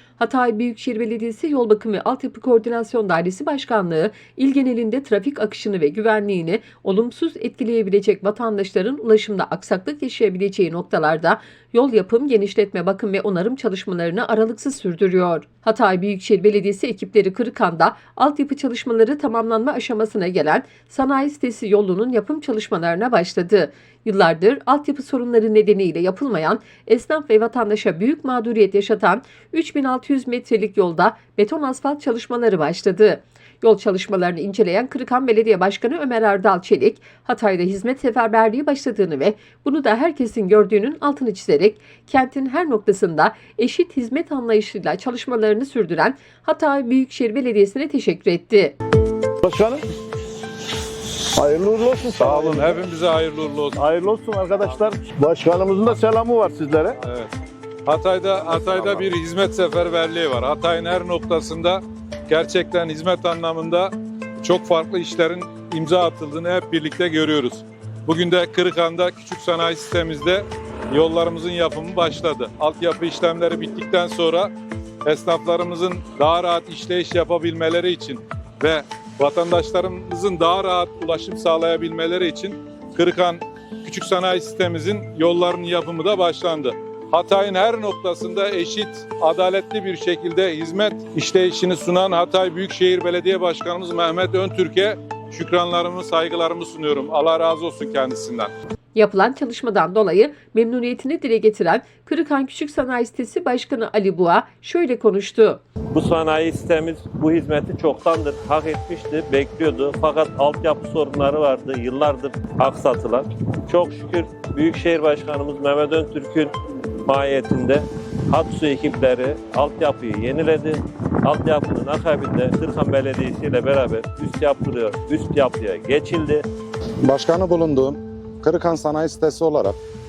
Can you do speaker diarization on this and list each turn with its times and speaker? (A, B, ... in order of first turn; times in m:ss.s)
0:00.2-0:48.8 A
0:49.4-0:49.8 B
0:51.4-0:52.7 B
0:52.2-0:53.8 C
0:53.9-0:56.9 B
0:57.0-0:57.4 C
0:57.9-1:14.5 C
1:15.0-1:38.5 C
1:39.0-1:45.6 A
1:45.9-1:56.5 D
1:57.0-2:06.5 D
2:07.0-2:09.8 E